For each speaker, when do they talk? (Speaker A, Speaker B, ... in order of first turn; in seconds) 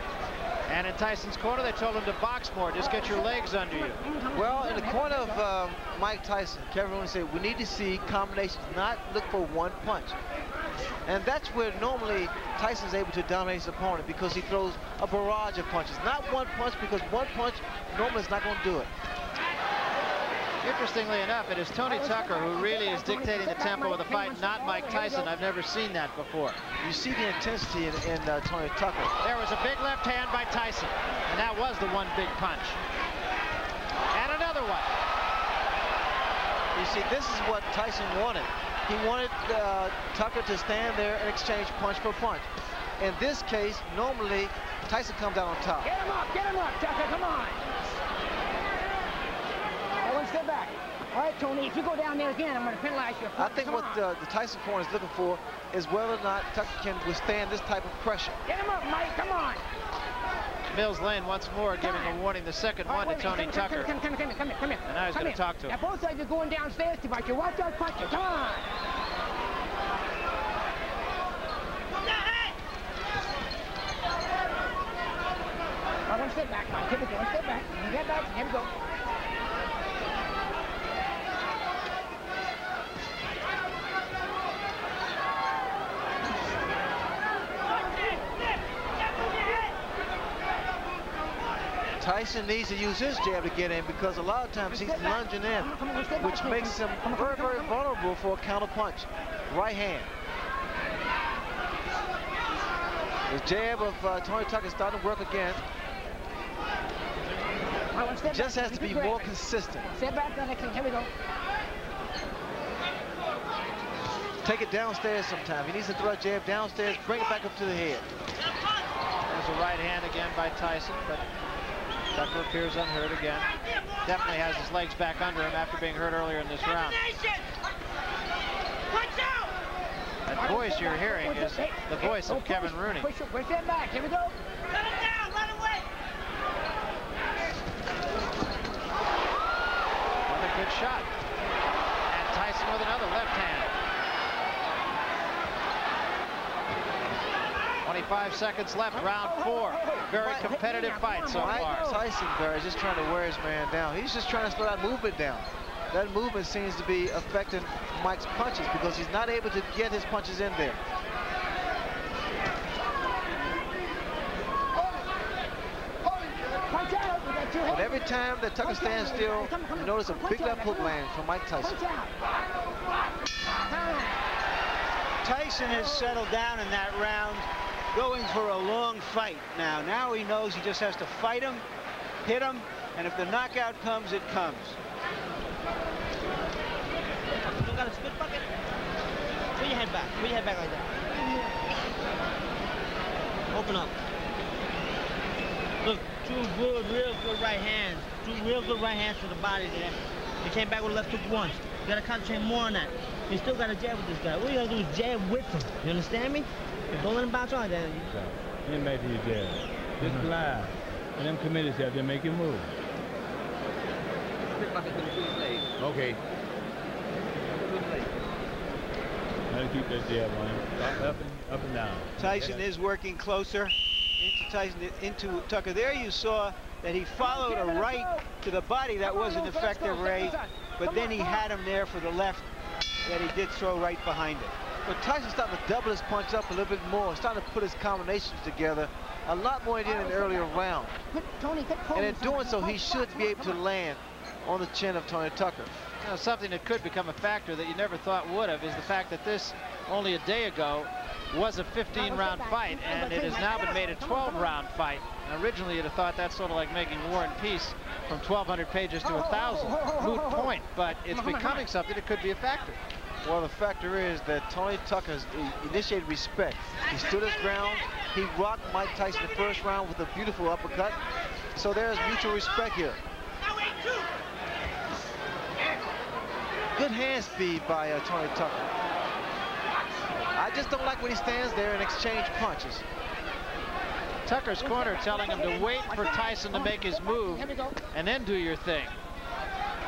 Speaker A: 0.7-4.0, 20.6-26.6, 29.2-32.8, 34.1-34.9, 60.7-63.9, 64.8-65.8, 119.3-121.2, 122.1-123.5, 124.0-127.0, 130.2-133.1, 140.3-141.1, 142.1-143.7, 147.8-151.9, 246.0-262.8, 284.3-288.9
Speaker B: 2.8-5.4, 21.8-25.3, 45.8-47.6, 50.0-54.0, 58.5-59.6, 61.8-62.2, 62.9-68.7, 76.1-78.7, 94.7-97.7, 107.9-111.1, 130.3-134.3, 148.9-152.0, 166.0-171.0, 171.6-172.2, 173.6-174.2, 227.2-228.3, 229.0-231.4, 239.8-243.6, 251.9-254.6, 259.0-260.5, 261.1-261.6, 284.6-287.8
Speaker C: 4.3-10.2, 11.1-18.9, 26.8-29.1, 36.7-42.5, 43.0-45.9, 53.4-58.4, 92.0-100.1, 103.3-105.6, 108.2-109.9, 114.4-118.0, 150.1-150.5, 151.3-160.8, 167.7-171.8, 234.8-241.0, 241.9-245.7, 263.2-271.0, 271.5-273.0, 276.7-278.7, 280.3-282.8
Speaker D: 87.9-88.1, 127.0-127.5, 128.9-129.5, 134.7-135.9, 187.4-188.4, 189.6-191.1, 193.5-193.9, 195.8-208.1, 214.6-215.6
Speaker E: 175.2-181.6, 182.2-184.8, 222.2-232.4, 233.0-234.5
Speaker F: 208.1-212.7, 215.8-216.2, 219.5-222.6